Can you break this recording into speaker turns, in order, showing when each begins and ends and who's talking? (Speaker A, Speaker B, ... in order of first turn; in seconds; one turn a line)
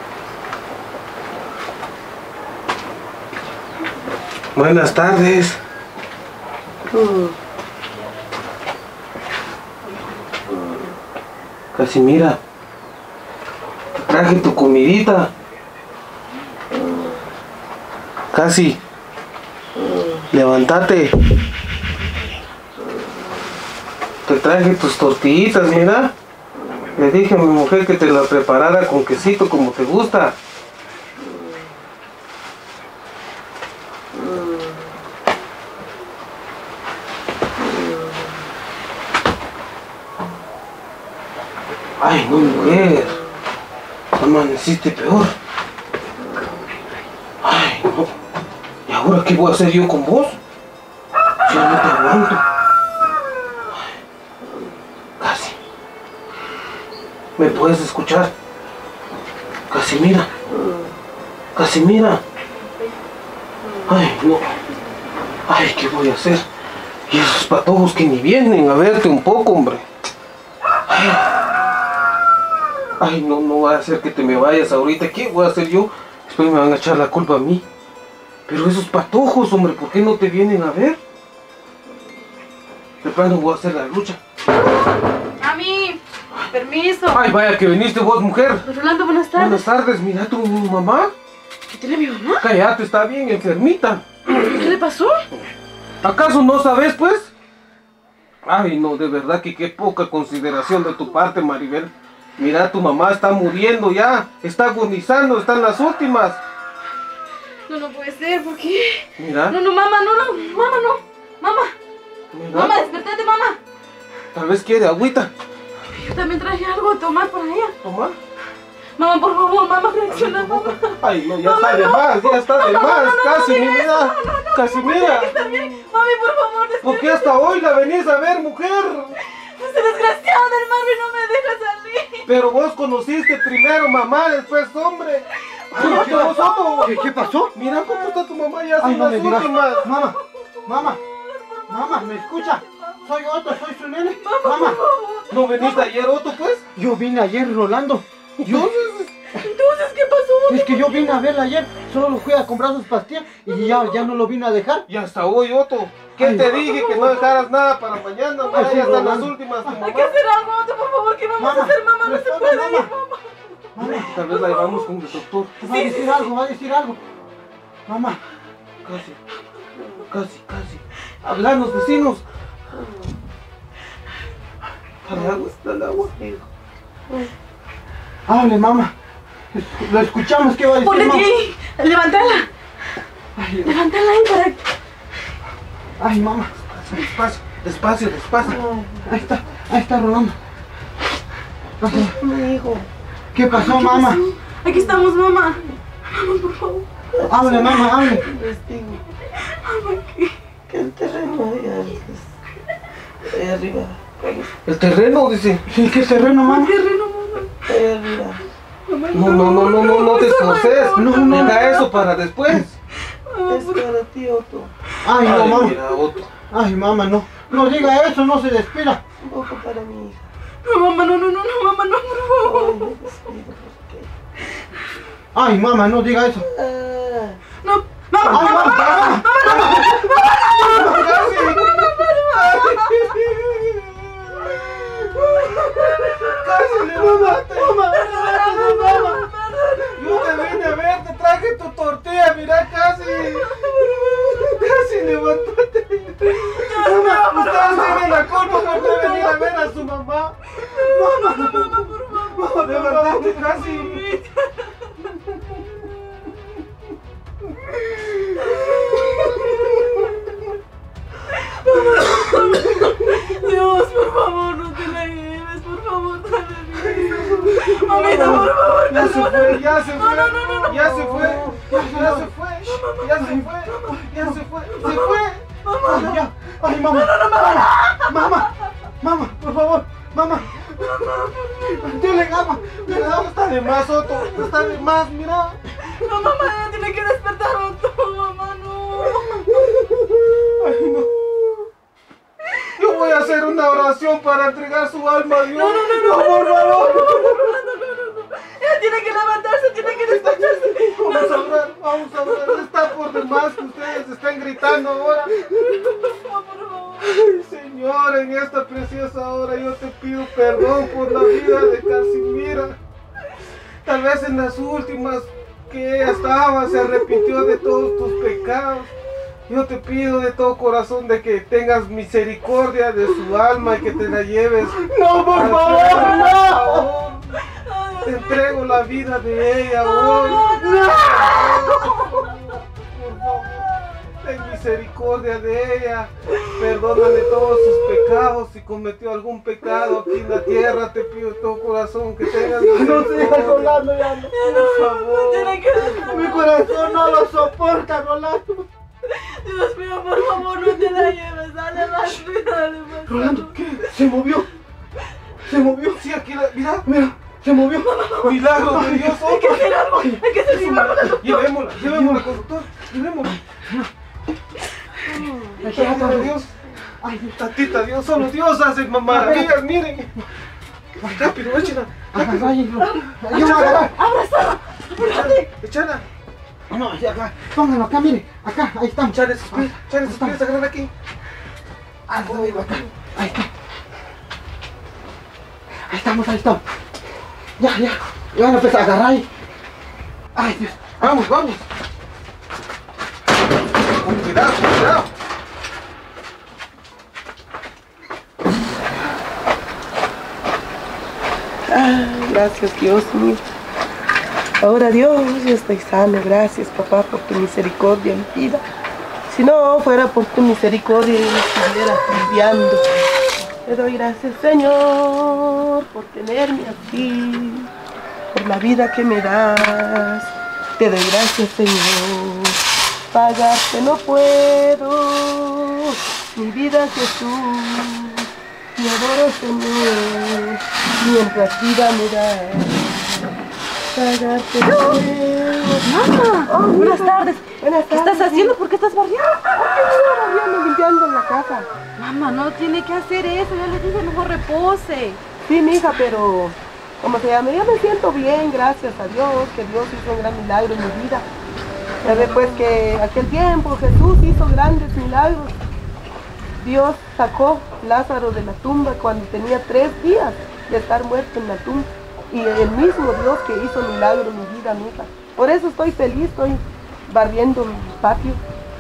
Speaker A: 4.5-5.6
Speaker B: 6.9-7.4
Speaker B: 10.5-10.9
Speaker A: 11.7-12.4
Speaker A: 13.9-15.3
Speaker B: 16.7-17.2
Speaker A: 18.3-18.8
Speaker B: 19.7-20.3
Speaker A: 20.3-21.1
Speaker B: 22.8-23.3
Speaker A: 24.2-26.1
Speaker B: 26.6-26.9
Speaker A: 26.9-30.3
Speaker B: 31.2-31.7
Speaker B: 34.1-34.9
Speaker B: 37.6-38.4
Speaker A: 42.0-43.2
Speaker B: 42.3-43.2
Speaker A: 44.2-45.3
Speaker A: 47.4-48.1
Speaker A: 48.9-50.4
Speaker A: 51.5-52.4
Speaker B: 54.4-54.7
Speaker A: 55.2-55.5
Speaker A: 57.4-58.3
Speaker A: 59.7-60.3
Speaker B: 60.5-61.0
Speaker A: 61.5-62.2
Speaker A: 63.9-64.5
Speaker A: 65.5-66.4
Speaker A: 67.1-69.8
Speaker A: 70.9-71.3
Speaker A: 73.0-77.6
Speaker A: 78.5-81.0
Speaker A: 83.0-84.2
Speaker C: 84.5-87.2
Speaker A: 87.1-88.7
Speaker C: 88.6-89.7
Speaker A: 89.3-91.1
Speaker C: 91.7-92.4
Speaker A: 92.4-94.0
Speaker C: 94.3-95.2
Speaker A: 96.0-97.3
Speaker A: 98.4-106.4
Speaker C: 107.7-111.7
Speaker A: 109.2-109.5
Speaker A: 112.3-112.8
Speaker C: 112.5-113.6
Speaker A: 114.3-115.3
Speaker C: 115.9-117.7
Speaker A: 117.8-118.2
Speaker C: 119.0-127.5
Speaker A: 120.1-125.4
Speaker B: 125.5-125.8
Speaker A: 126.8-129.2
Speaker C: 129.2-132.3
Speaker A: 132.3-136.9
Speaker C: 135.6-138.2
Speaker D: 135.7-137.5
Speaker A: 137.5-139.8
Speaker D: 138.8-140.1
Speaker C: 139.2-145.9
Speaker D: 140.7-141.0
Speaker D: 141.7-144.8
Speaker A: 145.3-146.6
Speaker D: 146.7-148.7
Speaker A: 148.4-149.1
Speaker C: 149.3-151.2
Speaker D: 150.5-154.8
Speaker C: 153.5-154.1
Speaker A: 154.9-160.2
Speaker D: 156.2-156.5
Speaker C: 156.3-157.4
Speaker C: 158.5-158.8
Speaker D: 158.5-159.8
Speaker C: 159.7-164.9
Speaker D: 161.4-162.9
Speaker D: 163.8-164.2
Speaker A: 163.8-165.7
Speaker D: 165.6-167.0
Speaker C: 165.7-166.3
Speaker D: 167.9-168.2
Speaker A: 168.8-169.2
Speaker B: 169.8-170.1
Speaker A: 170.1-172.2
Speaker B: 172.7-173.1
Speaker A: 175.0-176.1
Speaker B: 175.1-176.5
Speaker D: 178.3-178.9
Speaker D: 179.5-181.4
Speaker C: 180.8-182.5
Speaker D: 183.3-183.8
Speaker C: 183.6-184.6
Speaker D: 186.0-186.5
Speaker A: 186.7-188.6
Speaker B: 188.4-189.2
Speaker D: 189.1-190.3
Speaker D: 191.8-192.2
Speaker B: 191.9-192.9
Speaker D: 193.3-194.2
Speaker C: 193.5-195.6
Speaker B: 194.7-195.1
Speaker C: 196.1-196.8
Speaker B: 197.1-199.0
Speaker D: 197.3-198.2
Speaker C: 197.6-198.1
Speaker C: 199.4-200.3
Speaker B: 200.7-202.3
Speaker B: 203.2-204.5
Speaker A: 204.7-205.6
Speaker D: 205.7-206.7
Speaker C: 206.1-207.7
Speaker B: 207.7-208.4
Speaker C: 209.1-212.0
Speaker A: 209.1-212.8
Speaker D: 210.9-211.7
Speaker C: 213.1-213.8
Speaker B: 213.5-214.7
Speaker D: 215.0-215.8
Speaker A: 215.2-216.3
Speaker D: 216.5-219.0
Speaker B: 219.2-220.3
Speaker C: 220.6-222.9
Speaker B: 222.4-224.1
Speaker D: 225.3-226.4
Speaker B: 226.4-227.4
Speaker C: 227.6-233.0
Speaker A: 228.2-239.2
Speaker D: 228.3-230.0
Speaker D: 230.7-231.4
Speaker C: 235.1-240.8
Speaker D: 237.0-237.4
Speaker D: 238.6-239.0
Speaker A: 239.9-243.8
Speaker C: 243.1-244.6
Speaker A: 244.4-250.3
Speaker C: 246.2-249.8
Speaker D: 246.7-247.3
Speaker C: 250.5-255.9
Speaker D: 250.7-253.2
Speaker A: 252.4-254.0
Speaker D: 257.9-258.4
Speaker C: 258.4-260.4
Speaker D: 259.1-259.9
Speaker C: 261.3-271.4
Speaker A: 266.8-275.4
Speaker D: 270.8-272.3
Speaker B: 271.0-271.5
Speaker C: 272.6-276.2
Speaker D: 274.0-275.2
Speaker D: 275.8-278.5
Speaker C: 276.7-278.6
Speaker D: 279.0-281.0
Speaker C: 280.5-282.9
Speaker D: 281.6-283.4
Speaker A: 282.9-285.6
Speaker C: 284.0-284.8
Speaker C: 285.8-289.9
Speaker A: 290.6-291.1
Speaker C: 292.5-293.7
Speaker A: 292.8-297.4
Speaker C: 295.3-301.6
Speaker A: 299.9-305.4
Speaker C: 302.2-304.0
Speaker C: 305.3-307.2
Speaker A: 307.0-312.8
Speaker C: 311.2-311.6
Speaker A: 313.8-318.9
Speaker C: 317.6-318.2
Speaker A: 319.5-327.4
Speaker D: 324.7-326.9
Speaker C: 325.9-326.3
Speaker C: 327.3-328.8
Speaker A: 328.0-343.8
Speaker C: 329.8-332.3
Speaker D: 330.4-331.5
Speaker C: 336.3-338.0
Speaker D: 342.4-348.7
Speaker B: 342.7-344.3
Speaker C: 344.3-347.3
Speaker A: 344.5-345.6
Speaker C: 349.1-353.9
Speaker D: 350.5-351.1
Speaker D: 353.1-354.5
Speaker A: 353.3-354.4
Speaker D: 355.4-356.0
Speaker A: 355.5-356.9
Speaker D: 356.8-359.1
Speaker C: 357.7-361.5
Speaker A: 358.2-359.8
Speaker D: 359.9-360.2
Speaker A: 360.4-363.4
Speaker D: 361.7-362.4
Speaker D: 363.5-363.9
Speaker B: 365.1-366.3
Speaker D: 365.6-366.4
Speaker A: 365.6-366.5
Speaker D: 367.0-367.5
Speaker A: 367.4-370.1
Speaker D: 369.1-369.6
Speaker D: 371.0-371.4
Speaker A: 371.0-372.5
Speaker D: 372.1-373.9
Speaker C: 372.9-375.5
Speaker A: 373.3-373.9
Speaker A: 375.0-376.0
Speaker D: 376.7-380.4
Speaker A: 379.1-380.9
Speaker D: 382.1-383.5
Speaker A: 382.2-382.7
Speaker D: 385.9-386.6
Speaker D: 387.6-389.3
Speaker D: 390.3-391.1
Speaker A: 391.0-391.6
Speaker A: 394.0-395.1
Speaker B: 401.7-403.4
Speaker B: 404.6-408.6
Speaker B: 409.3-412.9
Speaker B: 413.6-417.7
Speaker B: 418.3-433.2
Speaker B: 433.9-435.9
Speaker C: 434.6-435.0
Speaker C: 435.8-439.4
Speaker B: 436.5-438.6
Speaker B: 439.6-441.7
Speaker C: 442.0-445.2
Speaker B: 445.4-451.2
Speaker C: 452.0-452.7
Speaker B: 452.0-455.6
Speaker B: 456.6-468.4